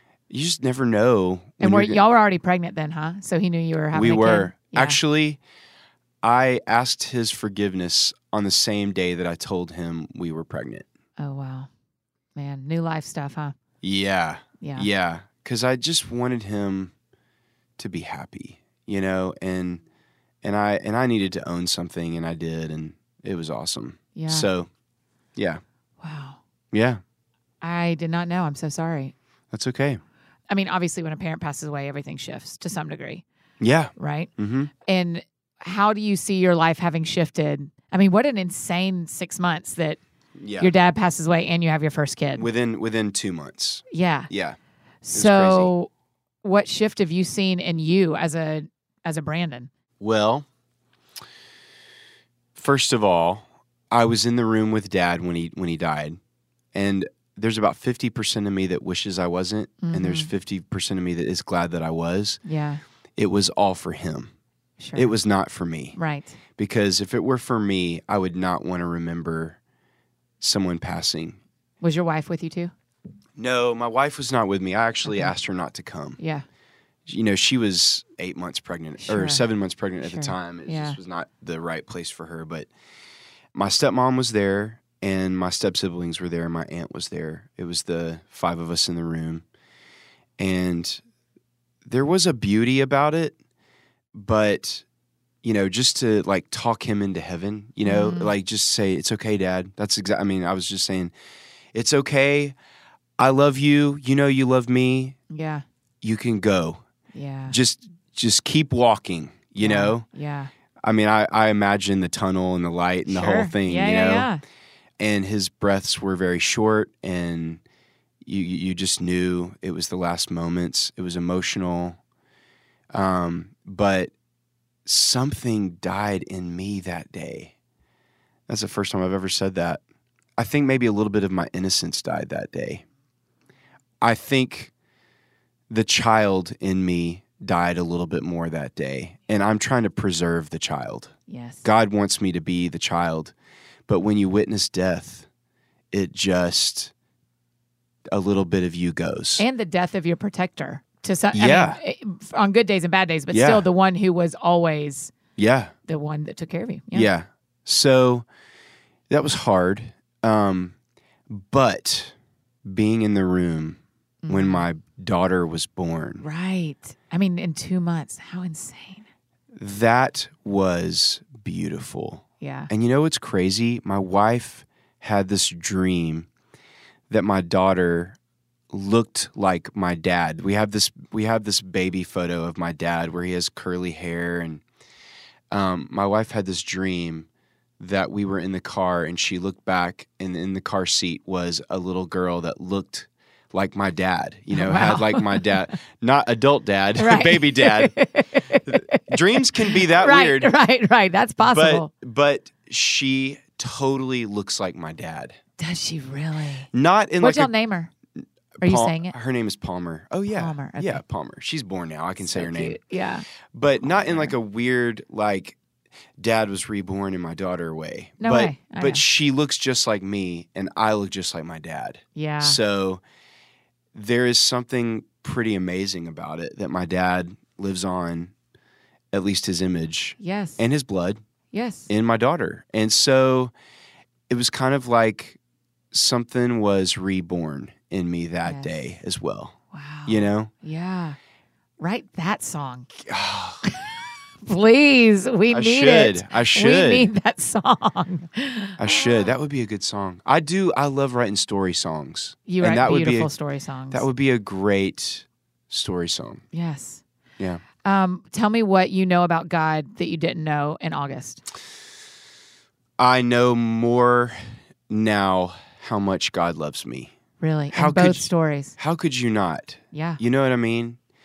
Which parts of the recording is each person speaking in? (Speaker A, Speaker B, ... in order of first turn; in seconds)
Speaker A: 0.3-2.0, 3.9-5.4, 6.2-10.9, 13.8-16.9, 17.8-19.8, 20.4-24.7, 25.4-25.6, 26.7-27.0, 29.5-30.0, 33.6-34.7, 40.4-40.7, 42.4-44.6, 45.1-45.7, 50.0-50.5, 52.5-56.2, 56.7-62.4, 63.2-64.3, 65.0-66.0, 66.6-69.6, 70.4-71.4, 73.4-76.2, 77.1-82.7, 83.5-89.5, 90.4-91.0, 91.8-93.3, 94.1-94.8, 95.4-101.1, 101.7-102.5, 103.2-105.2, 106.0-106.8, 107.5-110.1, 110.8-114.3, 115.0-117.6, 118.2-122.0, 122.9-124.1, 124.9-127.5, 128.5-129.8, 130.4-132.8, 134.0-134.7, 135.7-141.1, 141.6-143.3, 143.9-145.3, 145.9-146.9, 148.1-149.4, 151.3-151.8, 153.3-153.7, 155.4-155.7, 156.9-158.3, 159.1-160.7, 161.3-166.2, 169.6-176.3, 177.1-178.2, 178.7-184.6, 185.5-187.3, 187.8-198.0, 198.7-200.5, 201.4-205.4, 206.7-207.5, 208.6-212.8, 213.5-215.6, 216.2-223.0, 223.9-228.3, 229.1-231.2, 231.9-233.5, 234.3-235.4, 235.9-239.6, 240.1-240.5, 243.1-243.6, 245.5-247.1, 248.8-253.3, 253.9-256.4, 263.0-264.4, 264.9-267.1, 267.7-271.0
Speaker B: 1.6-5.0, 11.2-11.7, 12.4-13.6, 14.6-14.9, 24.1-24.5, 26.0-26.4, 27.6-29.1, 30.5-33.2, 34.0-34.3, 34.9-40.0, 40.6-42.5, 43.9-44.3, 45.0-45.9, 46.4-49.7, 59.8-60.3, 62.5-62.8, 64.8-65.1, 66.0-66.4, 71.8-72.7, 75.1-75.3, 76.2-76.5, 79.0-79.4, 80.0-81.0, 97.8-98.3, 105.3-105.6, 107.1-107.6, 109.6-110.5, 113.1-114.4, 141.3-141.6, 149.4-155.1, 155.9-157.1, 164.2-164.7, 166.2-169.1, 172.4-172.7, 194.5-195.6, 197.0-201.9, 205.6-206.7, 207.2-207.9, 208.6-209.1, 210.3-211.0, 212.2-213.2, 213.9-214.3, 218.2-219.0, 222.2-222.6, 230.2-230.6, 231.5-231.9, 238.4-238.7, 239.7-241.2, 241.8-242.9, 244.4-249.3, 252.5-254.1, 256.5-257.0, 257.8-261.4, 267.4-268.8, 269.9-270.2